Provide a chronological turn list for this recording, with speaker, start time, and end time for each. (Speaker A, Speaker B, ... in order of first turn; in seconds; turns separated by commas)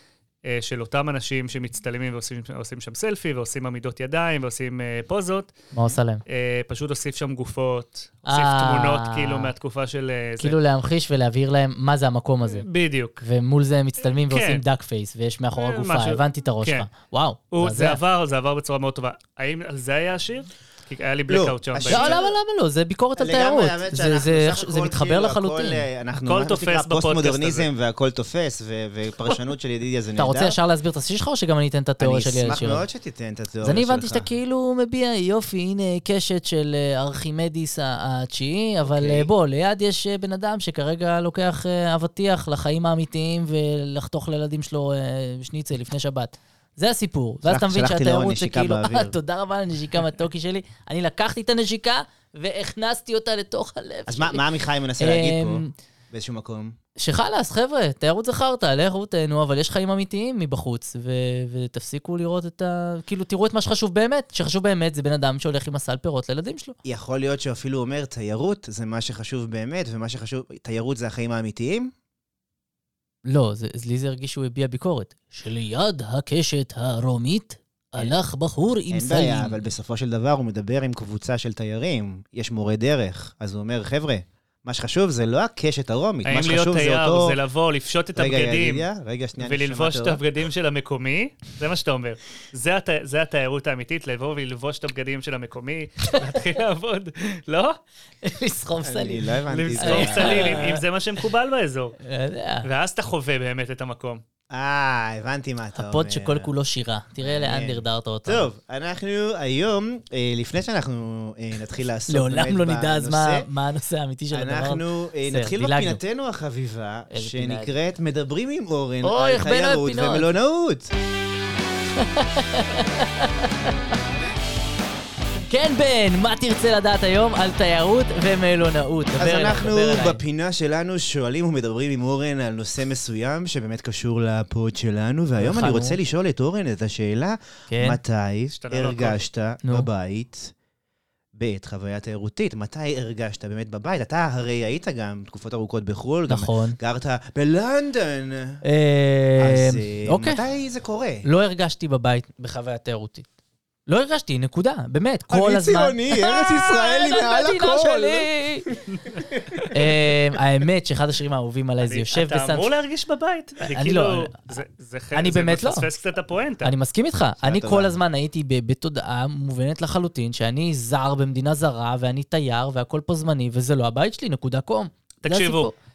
Speaker A: 0.4-5.5, Speaker B: 5.7-6.2, Speaker A: 6.3-10.6, Speaker B: 8.2-9.5, Speaker B: 10.4-12.7, Speaker A: 12.4-13.2, Speaker B: 13.2-18.0, Speaker A: 14.0-14.6, Speaker A: 15.6-16.9, Speaker A: 17.5-22.2, Speaker C: 21.3-22.3, Speaker B: 21.9-25.9, Speaker C: 23.2-30.6, Speaker A: 26.1-27.7, Speaker B: 30.2-32.8, Speaker C: 32.0-34.3, Speaker B: 33.6-54.4, Speaker C: 38.8-39.3, Speaker C: 47.5-49.1, Speaker C: 54.1-56.7, Speaker B: 55.0-55.7, Speaker B: 57.0-66.7, Speaker C: 66.8-71.9, Speaker B: 73.2-79.6, Speaker C: 78.9-87.4, Speaker A: 86.2-88.8, Speaker C: 88.2-90.2, Speaker A: 89.4-97.8, Speaker B: 98.2-100.8, Speaker C: 98.8-100.7, Speaker A: 99.5-102.0, Speaker B: 102.0-102.7, Speaker A: 102.6-104.2, Speaker C: 104.5-106.5, Speaker B: 105.8-108.5, Speaker C: 107.2-113.5, Speaker B: 112.1-116.0, Speaker C: 114.3-120.9, Speaker B: 117.1-117.7, Speaker B: 119.0-120.3, Speaker B: 122.0-123.7, Speaker B: 125.3-130.2, Speaker C: 129.2-140.5, Speaker B: 135.4-136.0, Speaker B: 137.7-138.0, Speaker A: 138.5-139.2, Speaker C: 141.3-148.6, Speaker B: 146.3-146.8, Speaker B: 148.6-150.4, Speaker C: 149.4-151.2, Speaker B: 151.2-153.3, Speaker B: 153.9-158.7, Speaker C: 155.3-158.8, Speaker A: 159.0-159.2, Speaker C: 159.3-159.6, Speaker B: 159.7-162.7, Speaker A: 161.8-166.7, Speaker B: 163.6-164.5, Speaker B: 165.1-165.9, Speaker B: 166.6-175.7, Speaker C: 167.4-168.0, Speaker A: 175.2-175.7